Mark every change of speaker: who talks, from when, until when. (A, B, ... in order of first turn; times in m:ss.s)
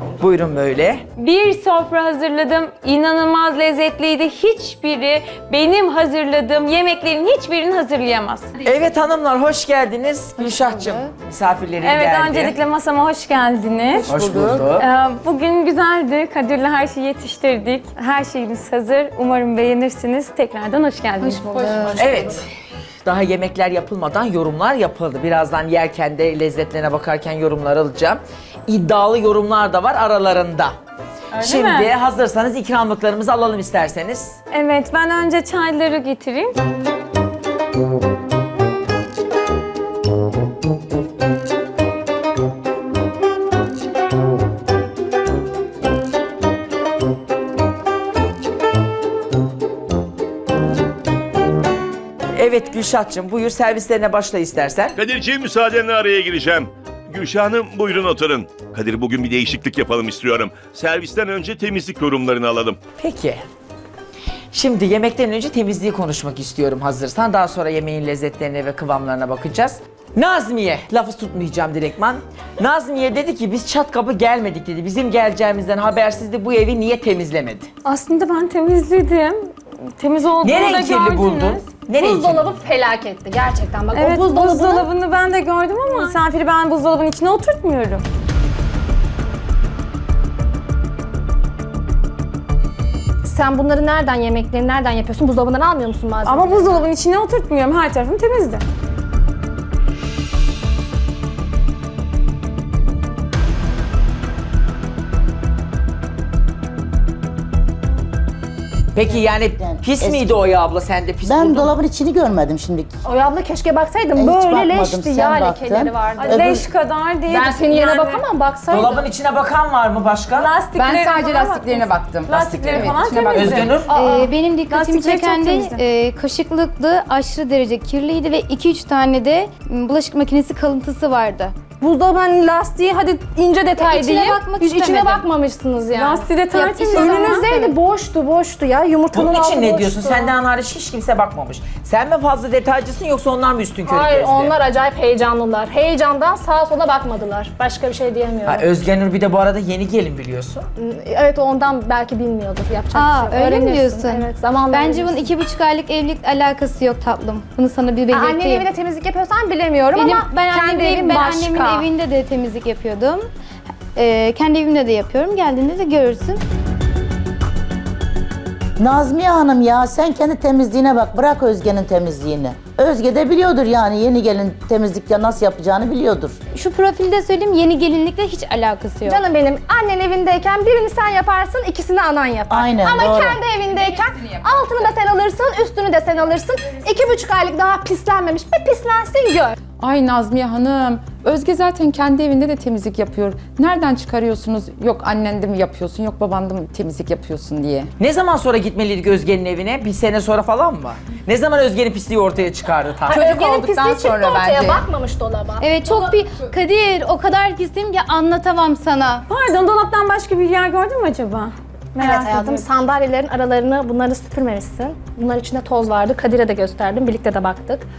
0:00.2-0:01.0 A
0:01.2-0:08.5 B
0:08.6-0:12.6 A
0:10.4-0:11.1 C
0:11.8-0:14.1 B
0:13.9-0:14.7 C
0:14.1-0:14.9 A
0:14.8-0:21.5 B
0:21.2-0:22.3 C
0:21.4-0:22.0 D
0:22.0-0:22.5 A
0:23.0-0:30.8 A
0:31.3-0:31.9 B
0:31.4-0:34.4 A
0:34.5-0:36.6 B
0:52.4-0:55.0 A
0:55.0-1:02.8 E
1:03.0-1:03.4 A
1:04.5-1:17.7 A
1:17.8-1:21.7 B
1:20.4-1:22.5 A
1:22.0-1:24.9 F
1:23.9-1:28.0 B
1:33.2-1:36.8 F
1:36.2-1:38.6 B
1:48.9-1:51.7 A
1:49.6-1:50.4 G
1:51.2-1:53.0 G
1:53.0-1:56.6 F
1:54.2-1:56.6 G
1:56.2-1:58.2 B
1:57.3-1:59.0 F
1:58.7-2:00.5 A
2:00.4-2:05.8 B
2:00.8-2:03.9 C
2:03.3-2:04.2 A
2:03.9-2:11.6 D
2:11.8-2:16.3 F
2:13.8-2:15.3 D
2:16.0-2:17.5 B
2:16.5-2:17.8 D
2:16.9-2:20.3 F
2:19.1-2:24.5 A
2:23.8-2:28.7 F
2:28.4-2:30.6 A
2:30.8-2:35.3 F
2:32.9-2:38.7 D
2:38.1-2:41.9 F
2:39.9-2:43.3 D
2:44.0-2:46.4 D
2:48.8-2:56.4 G
2:56.5-2:59.2 D
2:59.1-3:09.6 F
3:02.5-3:03.4 G
3:03.9-3:04.5 C
3:09.8-3:17.9 C
3:18.0-3:23.2 A
3:23.1-3:24.8 C
3:23.2-3:26.1 F
3:25.6-3:29.2 D
3:29.3-3:32.7 B
3:32.0-3:37.8 F